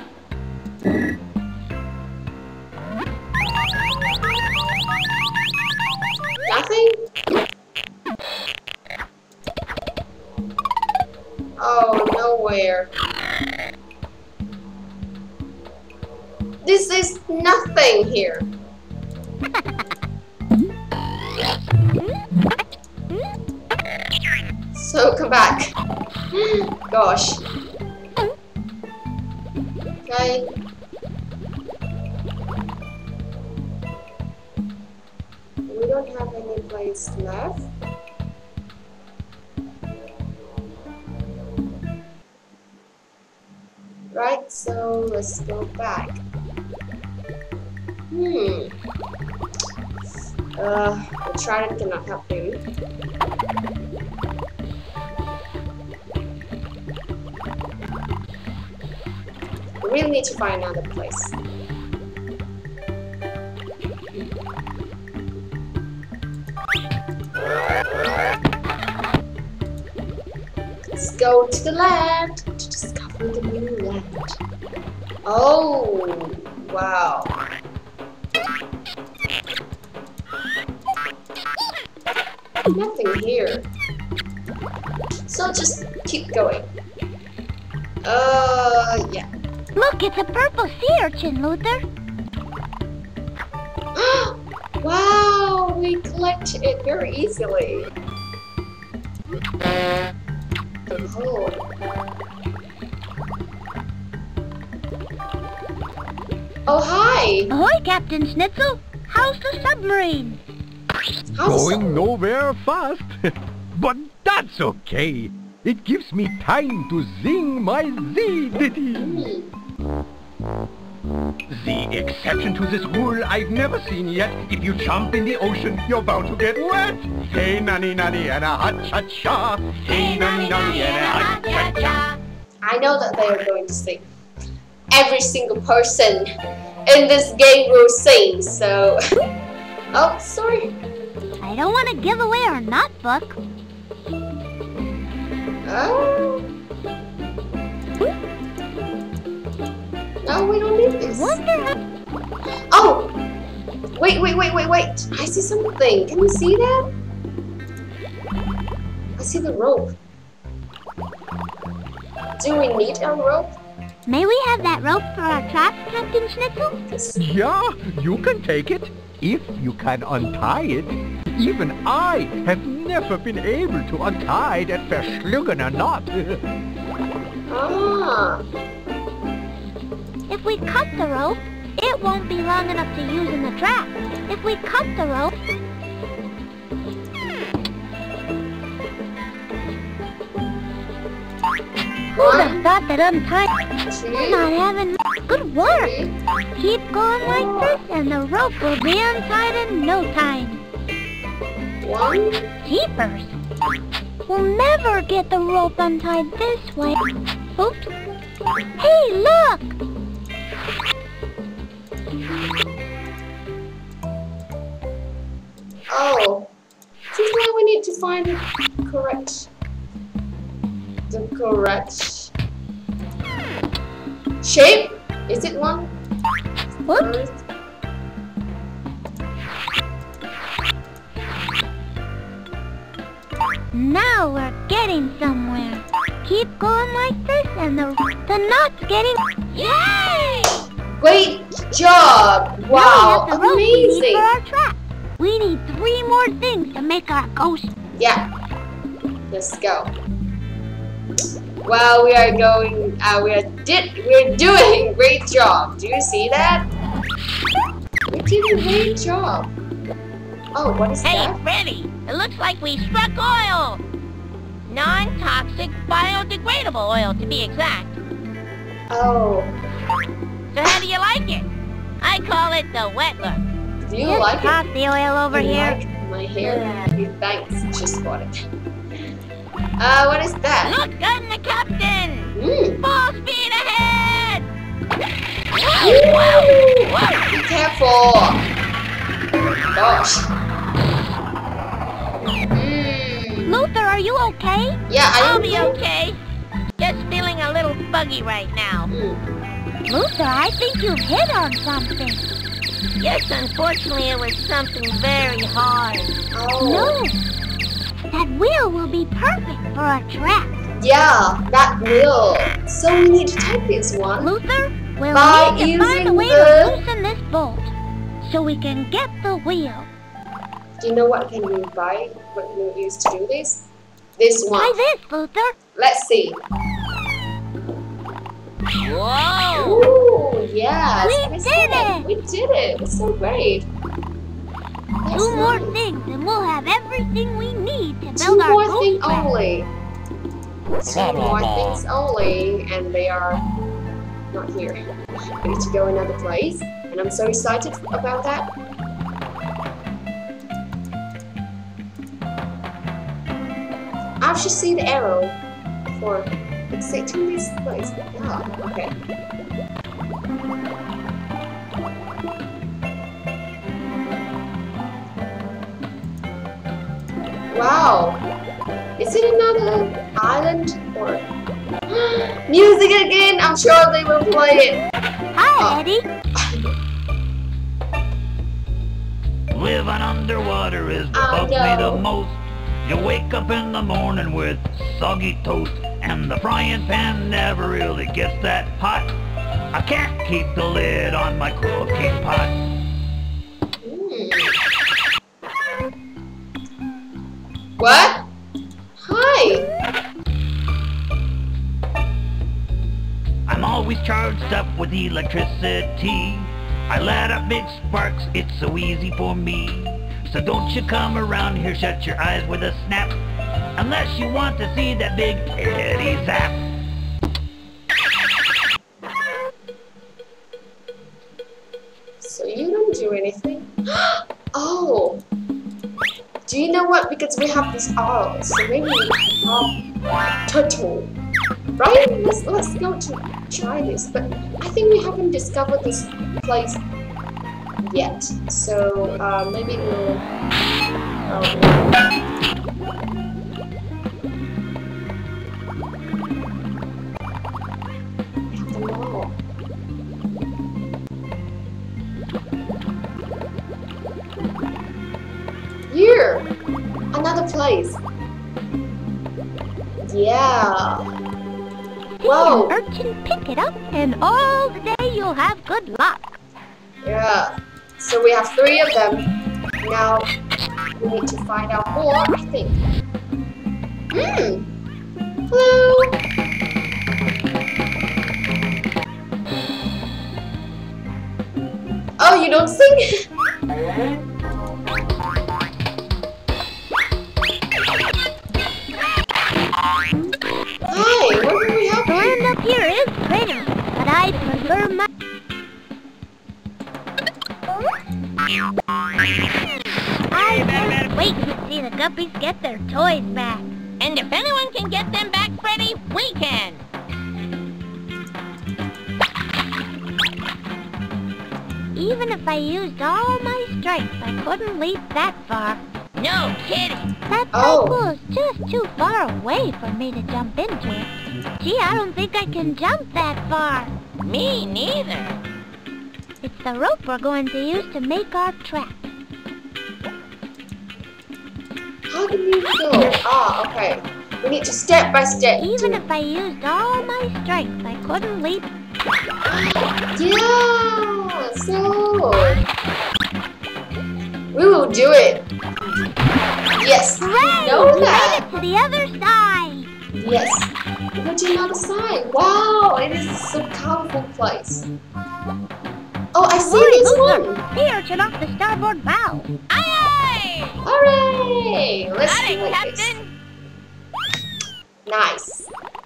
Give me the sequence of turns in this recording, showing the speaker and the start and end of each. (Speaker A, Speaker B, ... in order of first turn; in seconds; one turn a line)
Speaker A: 6.5-7.1
Speaker A: 11.6-12.9
Speaker A: 16.6-18.5
Speaker A: 24.7-25.8
Speaker A: 26.3-27.4
Speaker A: 30.1-30.5
Speaker A: 35.7-37.7
Speaker A: 44.1-46.2
Speaker A: 48.1-48.8
Speaker A: 50.6-52.6
Speaker A: 59.8-61.4
Speaker A: 71.0-74.4
Speaker A: 75.2-77.4
Speaker A: 82.7-83.7
Speaker A: 85.3-86.7
Speaker A: 88.0-89.3
Speaker B: 89.8-91.8
Speaker A: 94.0-97.9
Speaker A: 100.9-101.6
Speaker A: 106.7-107.5
Speaker B: 107.5-110.4
Speaker A: 111.4-112.1
Speaker C: 111.4-113.2
Speaker C: 113.8-119.3
Speaker A: 118.9-119.5
Speaker C: 121.5-132.0
Speaker D: 129.8-132.2
Speaker A: 132.6-134.1
Speaker A: 134.9-136.3
Speaker A: 136.9-139.0
Speaker A: 139.9-140.8
Speaker B: 141.4-143.4
Speaker A: 145.7-146.5
Speaker A: 150.2-151.4
Speaker B: 151.1-151.8
Speaker A: 152.7-153.2
Speaker A: 153.9-156.9
Speaker A: 159.2-160.0
Speaker A: 162.4-163.6
Speaker B: 164.1-166.8
Speaker A: 166.9-167.2
Speaker C: 167.2-176.4
Speaker A: 177.5-178.4
Speaker B: 180.3-185.4
Speaker B: 192.1-193.5
Speaker A: 192.2-192.7
Speaker A: 193.8-194.5
Speaker B: 194.2-195.9
Speaker A: 195.6-196.2
Speaker B: 196.6-200.6
Speaker A: 197.2-197.8
Speaker A: 201.8-202.5
Speaker B: 202.7-203.4
Speaker B: 204.3-207.0
Speaker B: 207.6-207.9
Speaker B: 208.8-209.7
Speaker A: 215.9-216.5
Speaker A: 217.1-219.5
Speaker A: 221.1-222.3
Speaker A: 224.4-225.9
Speaker A: 226.9-227.4
Speaker B: 226.9-227.2
Speaker B: 233.7-239.2
Speaker D: 239.5-240.6
Speaker A: 241.0-244.3
Speaker B: 242.7-247.7
Speaker A: 248.0-248.3
Speaker A: 249.3-250.0
Speaker A: 251.6-256.7
Speaker A: 258.1-259.5
Speaker A: 260.5-261.4
Speaker D: 261.0-263.8
Speaker D: 264.7-268.0
Speaker A: 268.9-269.6
Speaker D: 270.5-271.5
Speaker D: 272.0-273.5
Speaker A: 273.9-274.7
Speaker B: 274.0-275.8
Speaker A: 275.3-278.5
Speaker A: 279.8-280.8
Speaker D: 280.6-284.5
Speaker A: 282.4-282.8
Speaker D: 285.5-287.3
Speaker A: 285.8-288.4
Speaker A: 289.7-290.3
Speaker A: 292.5-293.5
Speaker B: 293.5-294.8
Speaker A: 294.9-295.8
Speaker D: 295.2-296.2
Speaker D: 296.8-298.9
Speaker A: 298.9-299.2
Speaker B: 299.9-302.3
Speaker D: 303.0-306.1
Speaker A: 306.3-307.0
Speaker B: 306.6-307.2
Speaker B: 308.1-310.5
Speaker A: 310.8-314.3
Speaker B: 314.2-319.9
Speaker A: 315.1-316.8
Speaker A: 320.8-323.7
Speaker A: 324.2-324.8
Speaker B: 324.6-325.6
Speaker A: 325.8-326.4
Speaker D: 328.8-329.9
Speaker A: 329.6-333.7
Speaker B: 331.0-332.1
Speaker A: 335.0-335.8
Speaker B: 335.1-339.3
Speaker A: 338.2-339.7
Speaker A: 340.8-343.5
Speaker A: 344.3-344.9
Speaker A: 345.4-348.5
Speaker A: 354.2-355.4
Speaker A: 355.9-359.0
Speaker A: 367.5-368.2
Speaker A: 369.0-371.3
Speaker A: 371.9-374.8
Speaker B: 375.4-376.1
Speaker A: 375.6-375.8
Speaker A: 376.4-376.6
Speaker E: 379.5-389.1
Speaker A: 381.1-382.1
Speaker E: 389.7-392.6
Speaker A: 393.8-394.6
Speaker A: 397.8-398.3
Speaker A: 399.0-399.7
Speaker E: 403.5-413.2
Speaker E: 413.8-416.6
Speaker A: 422.2-425.2
Speaker A: 426.5-429.8
Speaker A: 430.5-431.1
Speaker A: 431.8-436.8
Speaker A: 437.8-440.3
Speaker A: 441.3-441.9
Speaker A: 448.5-449.4
Speaker A: 455.9-456.5
Speaker A: 457.1-458.0
Speaker A: 460.0-461.0
Speaker B: 462.1-466.4
Speaker A: 462.2-462.8
Speaker A: 467.0-469.3
Speaker A: 469.8-470.3
Speaker A: 471.0-472.8
Speaker A: 474.1-474.7
Speaker A: 475.5-476.2
Speaker A: 482.2-483.3
Speaker A: 490.9-492.4
Speaker B: 492.1-495.1
Speaker B: 500.3-503.7
Speaker D: 504.0-506.8
Speaker B: 511.9-515.8
Speaker D: 516.2-517.1
Speaker B: 517.3-523.9
Speaker A: 517.5-518.0
Speaker D: 524.2-525.4
Speaker B: 526.4-529.1
Speaker A: 532.1-536.0
Speaker B: 535.6-538.7
Speaker A: 539.5-542.6
Speaker A: 544.5-545.5
Speaker A: 546.8-548.5
Speaker B: 547.2-549.9
Speaker A: 550.1-554.9
Speaker A: 556.3-557.6
Speaker B: 556.6-559.5
Speaker D: 559.7-560.8
Speaker A: 560.8-563.1
Speaker D: 562.2-563.3
Speaker A: 565.1-565.7